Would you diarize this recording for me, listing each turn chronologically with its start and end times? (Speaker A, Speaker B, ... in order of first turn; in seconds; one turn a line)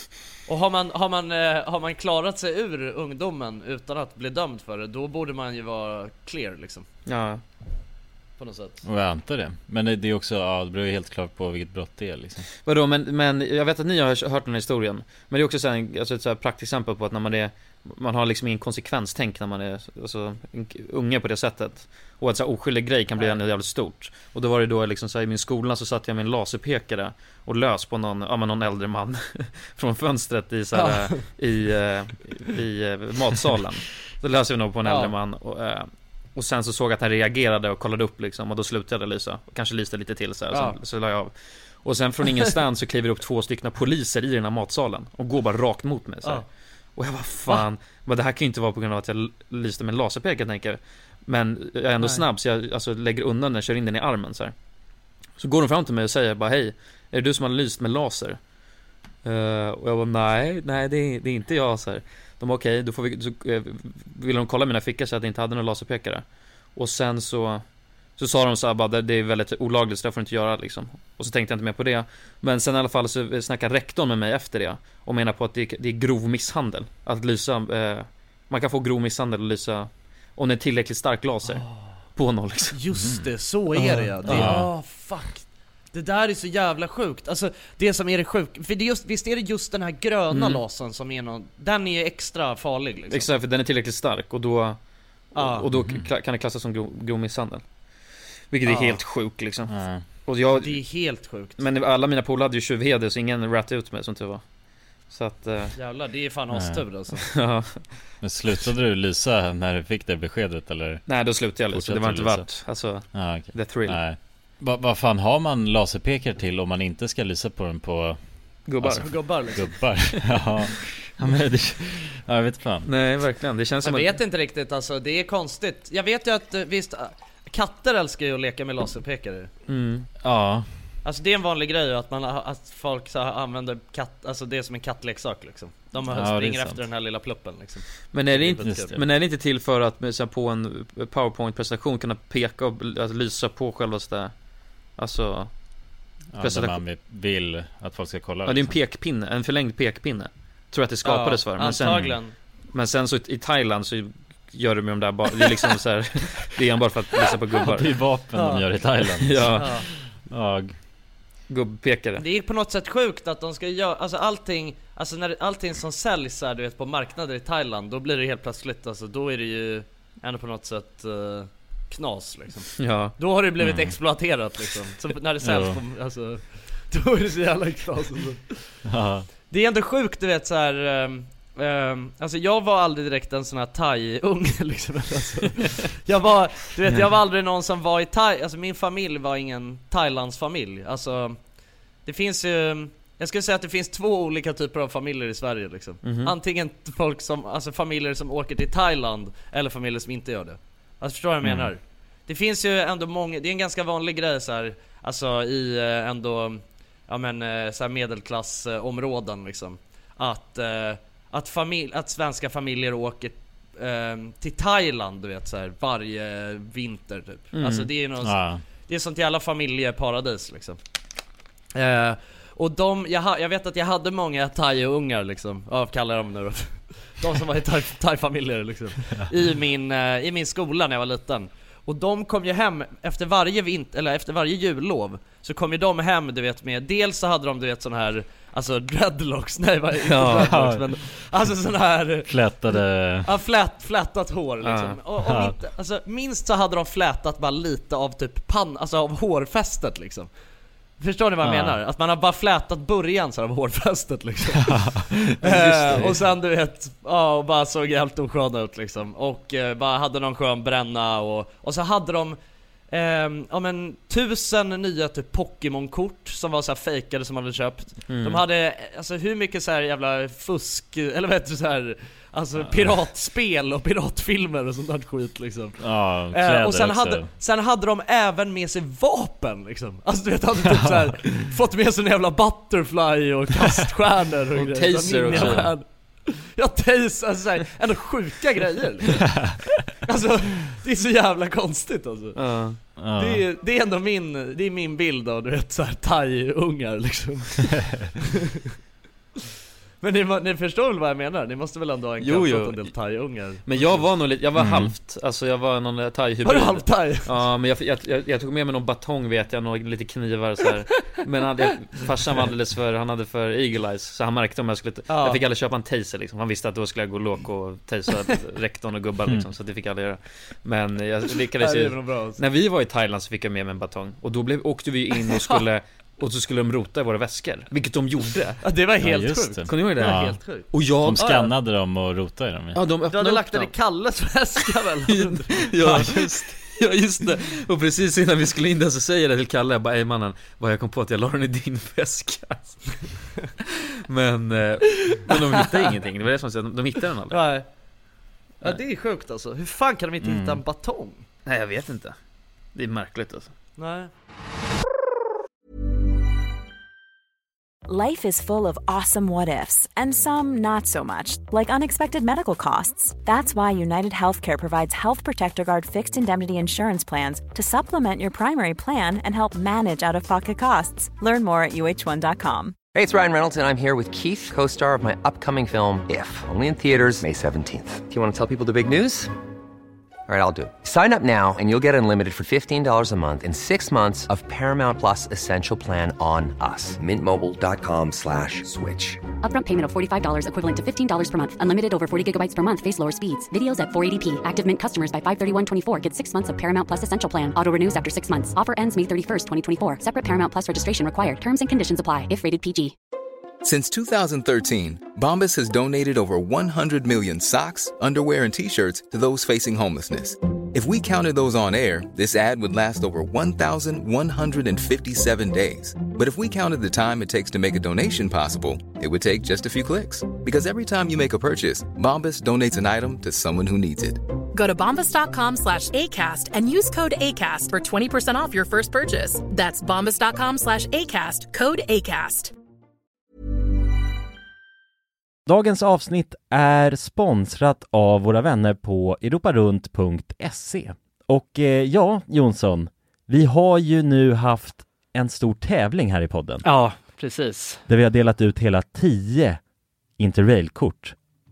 Speaker A: 0.5-6.9
Speaker B: 7.1-7.4
Speaker A: 8.4-8.8
Speaker C: 8.8-12.5
Speaker B: 12.6-54.5
Speaker A: 30.7-31.2
Speaker A: 34.9-35.1
Speaker A: 40.5-40.8
Speaker B: 55.4-58.4
Speaker B: 59.2-82.8
Speaker A: 81.5-81.9
Speaker A: 82.7-93.3
Speaker C: 83.0-83.3
Speaker C: 83.8-84.8
Speaker B: 84.2-84.6
Speaker B: 90.3-90.6
Speaker B: 93.1-97.7
Speaker A: 95.3-95.7
Speaker C: 95.7-96.1
Speaker B: 98.5-100.9
Speaker A: 98.7-99.0
Speaker C: 99.7-100.2
Speaker A: 100.6-101.6
Speaker B: 101.6-105.8
Speaker A: 105.8-107.3
Speaker C: 106.5-106.9
Speaker B: 107.3-108.6
Speaker C: 108.2-118.2
Speaker B: 111.1-114.0
Speaker B: 118.7-119.6
Speaker C: 118.8-122.9
Speaker A: 119.0-119.9
Speaker B: 122.8-124.2
Speaker A: 123.8-129.5
Speaker B: 129.7-130.1
Speaker C: 130.2-130.7
Speaker A: 131.0-139.0
Speaker C: 136.1-136.9
Speaker B: 138.1-144.4
Speaker C: 138.6-139.0
Speaker B: 144.9-145.6
Speaker C: 146.3-148.8
Speaker B: 146.4-146.8
Speaker B: 148.4-158.1
Speaker A: 151.0-152.3
Speaker C: 157.6-160.8
Speaker A: 158.3-158.7
Speaker B: 159.2-160.0
Speaker A: 159.6-159.9
Speaker B: 161.5-162.2
Speaker A: 162.2-178.7
Speaker B: 172.8-173.2
Speaker C: 173.6-174.0
Speaker C: 175.4-175.8
Speaker C: 178.9-179.3
Speaker A: 179.5-220.8
Speaker B: 196.0-196.3
Speaker C: 201.4-201.7
Speaker B: 217.5-217.9
Speaker C: 218.2-218.6
Speaker A: 221.8-250.3
Speaker B: 240.1-240.6
Speaker C: 240.3-241.0
Speaker C: 242.2-243.3
Speaker B: 244.6-245.0
Speaker C: 245.2-245.5
Speaker A: 251.0-262.4
Speaker C: 251.4-251.8
Speaker B: 255.4-256.2
Speaker A: 262.9-289.4
Speaker B: 268.1-268.4
Speaker C: 272.7-273.0
Speaker C: 275.8-277.3
Speaker B: 284.6-285.8
Speaker C: 285.3-285.8
Speaker A: 290.0-298.0
Speaker B: 292.4-292.8
Speaker C: 293.0-293.4
Speaker A: 300.0-304.1
Speaker B: 302.2-302.9
Speaker B: 303.6-328.6
Speaker C: 304.6-304.9
Speaker A: 306.4-307.4
Speaker A: 315.1-315.4
Speaker A: 321.6-322.4
Speaker A: 328.6-331.5
Speaker C: 329.0-330.4
Speaker B: 329.7-331.5
Speaker C: 331.0-332.8
Speaker B: 332.7-333.7
Speaker A: 333.1-336.1
Speaker B: 335.1-343.2
Speaker C: 335.9-336.3
Speaker B: 344.1-347.4
Speaker A: 347.3-347.7
Speaker A: 348.6-351.2
Speaker C: 350.2-350.6
Speaker B: 351.5-352.2
Speaker B: 352.8-353.5
Speaker A: 353.8-354.1
Speaker D: 357.9-372.8
Speaker E: 372.9-379.3
Speaker E: 380.3-389.3
Speaker F: 389.4-402.9
Speaker G: 403.6-424.2
Speaker H: 424.5-432.5
Speaker I: 435.5-446.7
Speaker A: 446.6-447.8
Speaker I: 447.9-449.6
Speaker I: 450.2-451.1